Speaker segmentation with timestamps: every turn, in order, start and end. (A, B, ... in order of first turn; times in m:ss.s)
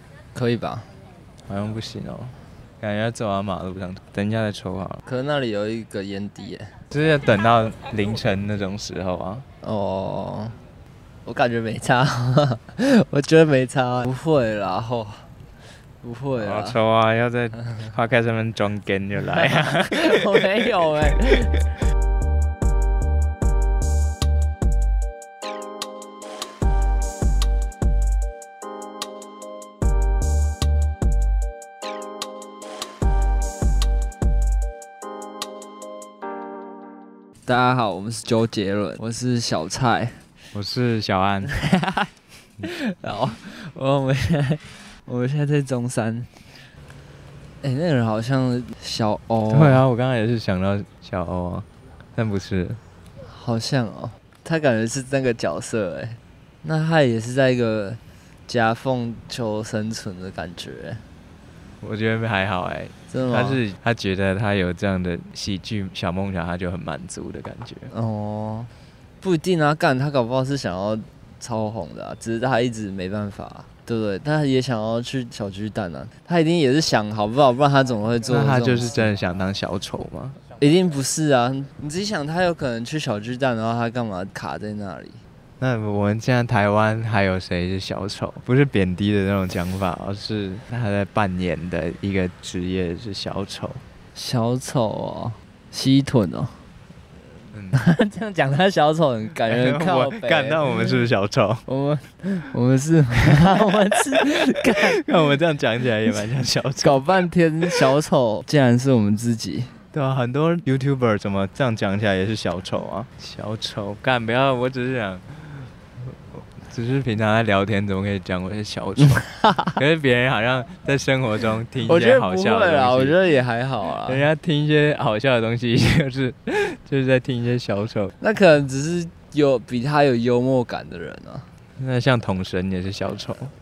0:00.3-0:00.9 A
0:01.5-0:05.0 B
0:05.1-0:06.7 A
0:06.9-0:09.4 B
0:09.6-0:10.6 A
0:11.2-0:15.3 A
0:16.0-0:16.8 A
0:16.4-0:21.4 B
0:19.3-0:21.6 A
0:37.5-0:40.2 A
0:40.5-0:41.5 B
0:41.5-0:42.1 A
0:42.6-0:46.4 A
0:47.6-0:49.8 A
0:49.5-0:52.8 B
0:53.3-1:01.0 A
1:01.8-1:07.9 B
1:03.1-1:03.6 A
1:07.9-1:08.7 A
1:09.2-1:18.9 A
1:18.3-1:20.4 B
1:20.6-1:25.2 A
1:25.6-1:33.8 B
1:34.2-1:36.5 A
1:37.5-1:37.8 B
1:37.7-1:41.0 A
1:39.5-1:41.6 B
1:41.7-1:45.1 A
1:44.2-1:47.0 B
1:46.8-1:49.7 A
1:49.9-2:03.2 B
1:59.1-1:59.8 A
2:01.9-2:04.2 A
2:04.0-2:08.1 B
2:08.2-2:11.5 A
2:11.8-2:13.5 B